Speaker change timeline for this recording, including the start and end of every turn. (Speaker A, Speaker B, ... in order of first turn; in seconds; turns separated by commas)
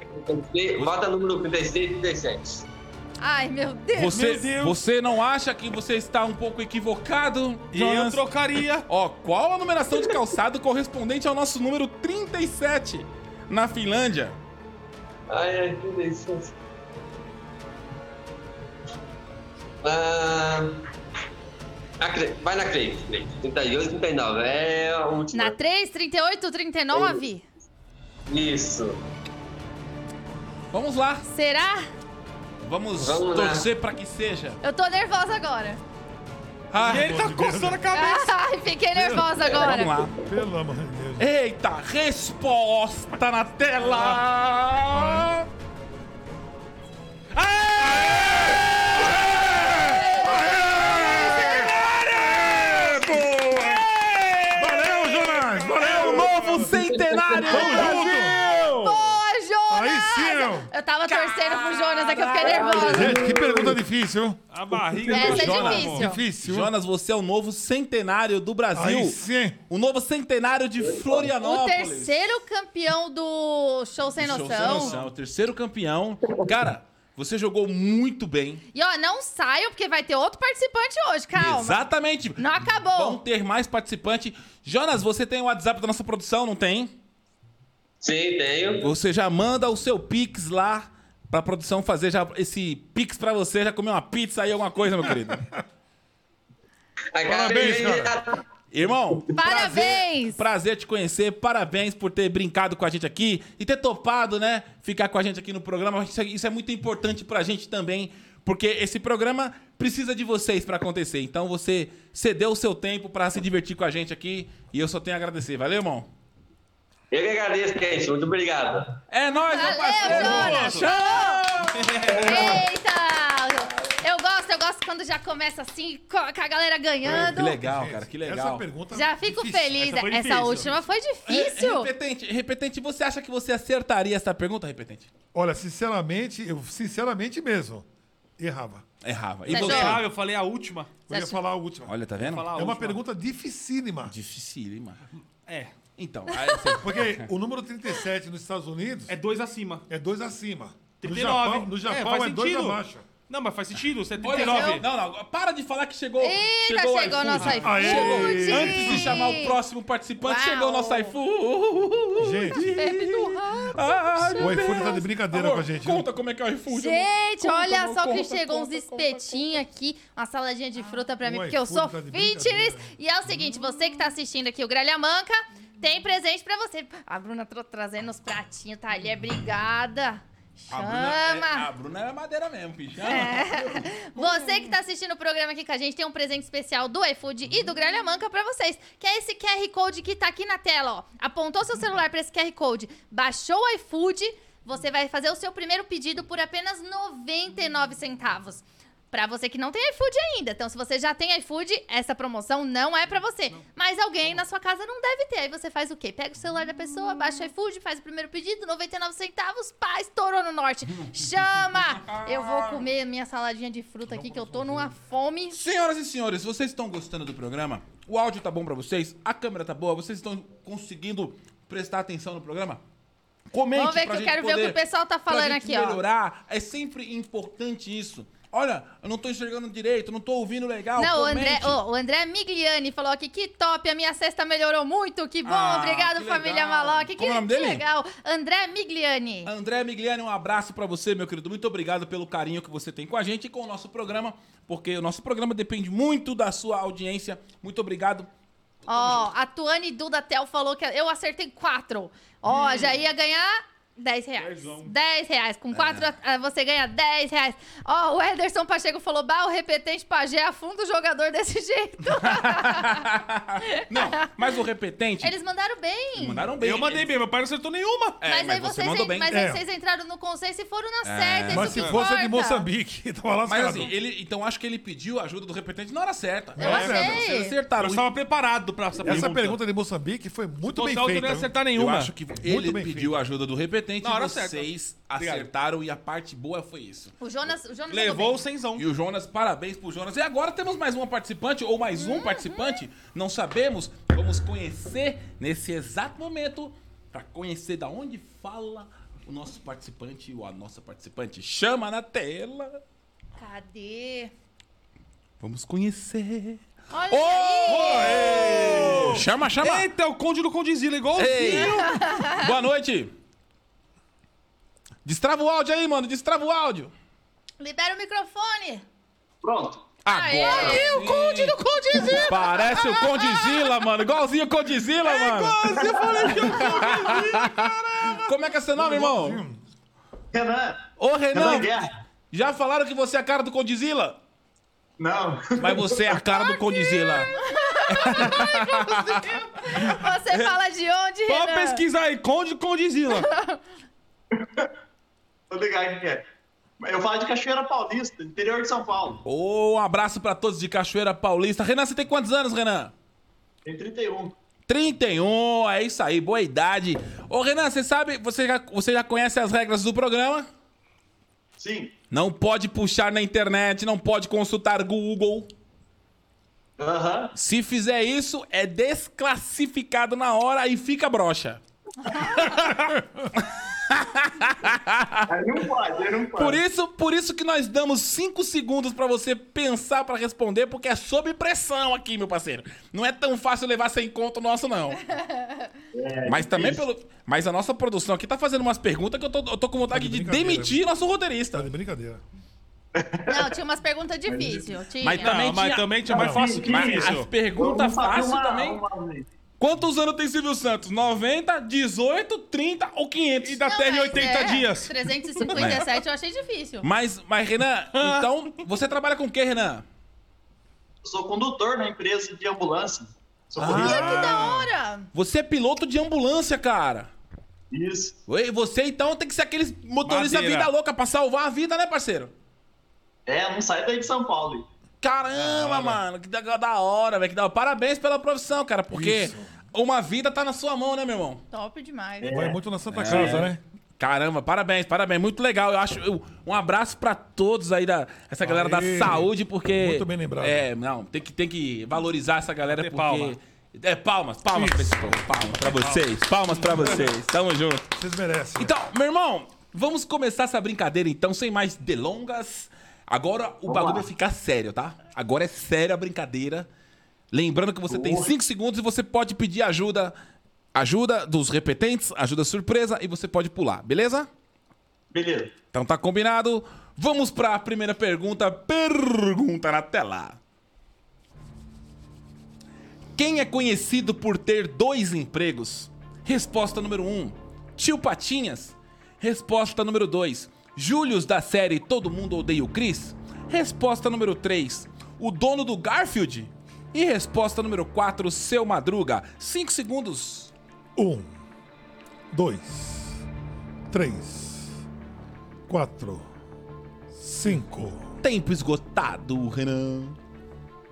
Speaker A: 0.1-2.6, Speaker B: 3.2-4.3, Speaker C: 4.0-8.3, Speaker D: 4.1-4.8, Speaker D: 7.7-8.9, Speaker C: 8.8-14.4, Speaker A: 15.3-16.5, Speaker A: 19.8-20.8, Speaker A: 22.0-25.5, Speaker B: 25.3-27.4, Speaker A: 26.9-27.2, Speaker A: 28.3-29.0, Speaker C: 30.7-31.2, Speaker B: 31.3-31.9, Speaker C: 32.6-34.6, Speaker A: 33.0-33.7, Speaker B: 34.6-35.8, Speaker C: 36.7-37.1, Speaker E: 36.8-37.8, Speaker D: 36.8-38.4, Speaker B: 37.9-40.0, Speaker E: 39.0-39.2, Speaker C: 39.5-40.2, Speaker E: 40.2-41.3, Speaker C: 41.2-45.5, Speaker E: 44.9-45.3, Speaker D: 47.3-48.6, Speaker C: 48.2-59.1, Speaker E: 49.6-51.7, Speaker E: 52.5-53.8, Speaker E: 54.5-56.7, Speaker A: 56.7-57.9, Speaker E: 57.5-58.4, Speaker B: 58.8-63.3, Speaker E: 59.7-60.7, Speaker C: 61.1-63.2, Speaker A: 62.4-63.8, Speaker E: 62.8-66.7, Speaker D: 64.5-66.1, Speaker B: 65.1-66.2, Speaker C: 65.2-65.8, Speaker C: 66.4-72.2, Speaker E: 68.7-69.6, Speaker A: 70.8-71.3, Speaker B: 71.4-74.9, Speaker C: 74.2-78.6, Speaker D: 74.5-75.1, Speaker B: 78.7-81.8, Speaker C: 81.3-87.0, Speaker B: 82.4-83.2, Speaker A: 88.0-88.9, Speaker C: 88.8-95.5, Speaker E: 95.0-95.4, Speaker A: 97.1-98.4, Speaker E: 97.2-98.2, Speaker C: 98.7-116.1, Speaker B: 99.3-100.4, Speaker A: 117.1-119.0, Speaker C: 119.1-122.5, Speaker B: 119.5-121.4, Speaker D: 120.0-120.9, Speaker D: 121.7-122.6, Speaker B: 122.2-127.6, Speaker E: 127.0-129.9, Speaker C: 127.1-128.6, Speaker B: 128.9-131.9, Speaker D: 129.8-130.8, Speaker C: 131.2-135.1, Speaker E: 135.3-137.8, Speaker E: 138.4-138.8, Speaker C: 139.0-140.1, Speaker B: 139.5-140.0, Speaker D: 139.5-141.0, Speaker B: 141.1-141.4, Speaker E: 141.1-144.1, Speaker C: 141.8-142.6, Speaker D: 142.2-143.0, Speaker C: 144.1-145.0, Speaker D: 145.5-145.8, Speaker C: 145.9-147.3, Speaker B: 146.4-146.8, Speaker E: 146.8-149.2, Speaker D: 149.1-149.8, Speaker E: 149.9-153.1, Speaker D: 151.0-154.8, Speaker C: 154.2-169.0, Speaker B: 154.2-154.8, Speaker B: 156.2-159.6, Speaker E: 157.5-159.2, Speaker B: 160.2-161.2, Speaker E: 162.2-162.8, Speaker B: 162.7-165.0, Speaker E: 164.3-166.1, Speaker B: 166.7-181.7, Speaker E: 171.2-172.9, Speaker C: 180.7-184.4, Speaker B: 183.0-215.6, Speaker C: 211.7-212.9, Speaker E: 214.1-214.9, Speaker C: 215.5-222.8, Speaker C: 223.5-231.8, Speaker B: 223.7-226.0, Speaker B: 231.0-239.5, Speaker C: 235.4-237.8, Speaker C: 239.4-248.3, Speaker C: 248.8-249.3, Speaker B: 248.9-263.0, Speaker D: 252.5-252.9, Speaker D: 254.4-254.9, Speaker C: 255.7-256.1, Speaker C: 262.2-265.3, Speaker B: 263.7-264.2, Speaker B: 265.2-266.4, Speaker C: 266.1-267.1, Speaker D: 266.6-268.2, Speaker C: 268.2-269.4, Speaker B: 268.2-272.7, Speaker E: 269.3-269.6, Speaker C: 271.0-271.8, Speaker E: 271.5-273.9, Speaker D: 271.7-271.9, Speaker C: 273.4-278.1, Speaker E: 276.6-277.2, Speaker B: 276.6-277.5, Speaker D: 276.7-277.0, Speaker D: 277.7-279.6, Speaker E: 279.0-281.5, Speaker D: 280.7-282.1, Speaker C: 281.7-287.1, Speaker E: 282.4-283.2, Speaker D: 284.0-285.5, Speaker B: 287.2-288.4, Speaker D: 287.9-288.9, Speaker C: 288.8-302.8, Speaker B: 291.9-292.8, Speaker B: 303.4-304.3, Speaker C: 305.4-309.9, Speaker B: 306.9-308.8, Speaker D: 307.6-311.9, Speaker C: 311.1-313.1, Speaker B: 311.4-312.5, Speaker C: 315.0-316.9, Speaker B: 317.6-318.8, Speaker F: 319.4-319.9, Speaker C: 320.0-321.6, Speaker B: 320.1-321.3, Speaker D: 320.4-322.9, Speaker B: 321.9-323.7, Speaker C: 322.1-329.4, Speaker D: 325.0-328.2, Speaker F: 325.8-326.6, Speaker E: 328.7-329.6, Speaker F: 330.3-331.9, Speaker C: 331.0-334.2, Speaker F: 335.0-336.2, Speaker C: 335.6-337.3, Speaker B: 336.3-341.8, Speaker C: 337.9-339.2, Speaker D: 339.5-339.9, Speaker D: 341.3-343.3, Speaker B: 343.1-343.6, Speaker F: 345.5-346.2, Speaker F: 346.8-349.2, Speaker C: 349.2-352.9, Speaker F: 353.6-354.3, Speaker C: 354.7-360.5, Speaker F: 361.6-361.9, Speaker C: 362.1-365.5, Speaker F: 366.8-367.3, Speaker C: 367.3-371.6, Speaker C: 372.1-375.3, Speaker F: 375.3-376.6, Speaker C: 376.4-385.1, Speaker B: 385.1-385.7, Speaker F: 385.9-386.8, Speaker C: 386.2-391.7, Speaker E: 389.9-390.8, Speaker E: 391.5-392.2, Speaker F: 392.9-393.5, Speaker B: 393.3-395.4, Speaker F: 394.3-394.7, Speaker C: 395.0-396.0, Speaker D: 395.2-397.3, Speaker F: 396.1-399.3, Speaker E: 396.1-396.6, Speaker C: 396.6-398.8, Speaker C: 399.6-404.4, Speaker D: 403.4-405.8, Speaker B: 403.6-406.9, Speaker C: 405.5-405.9, Speaker C: 406.8-409.8, Speaker D: 407.9-408.5, Speaker F: 411.0-414.4, Speaker C: 413.6-414.5, Speaker B: 413.7-415.1, Speaker D: 414.2-414.7, Speaker C: 415.1-417.1, Speaker F: 417.7-418.2, Speaker C: 418.3-422.3, Speaker D: 420.0-420.7, Speaker F: 423.2-424.7, Speaker C: 425.0-431.4, Speaker D: 425.3-426.0, Speaker E: 428.9-429.5, Speaker B: 431.5-432.3, Speaker F: 432.2-432.6, Speaker E: 432.3-433.6, Speaker C: 432.9-447.9, Speaker D: 433.1-433.4, Speaker E: 438.4-440.6, Speaker D: 442.7-443.4, Speaker E: 444.5-445.9, Speaker D: 445.6-446.0, Speaker D: 446.6-447.1, Speaker E: 447.9-448.7, Speaker C: 448.6-456.7, Speaker F: 453.7-454.1, Speaker C: 457.3-460.1, Speaker F: 457.9-458.3, Speaker C: 460.7-464.3, Speaker F: 465.1-465.5, Speaker C: 465.7-470.4, Speaker C: 473.1-490.5, Speaker E: 490.9-491.4, Speaker E: 492.3-493.2, Speaker E: 493.9-494.8, Speaker E: 495.7-496.3, Speaker E: 497.1-498.1, Speaker C: 498.2-500.2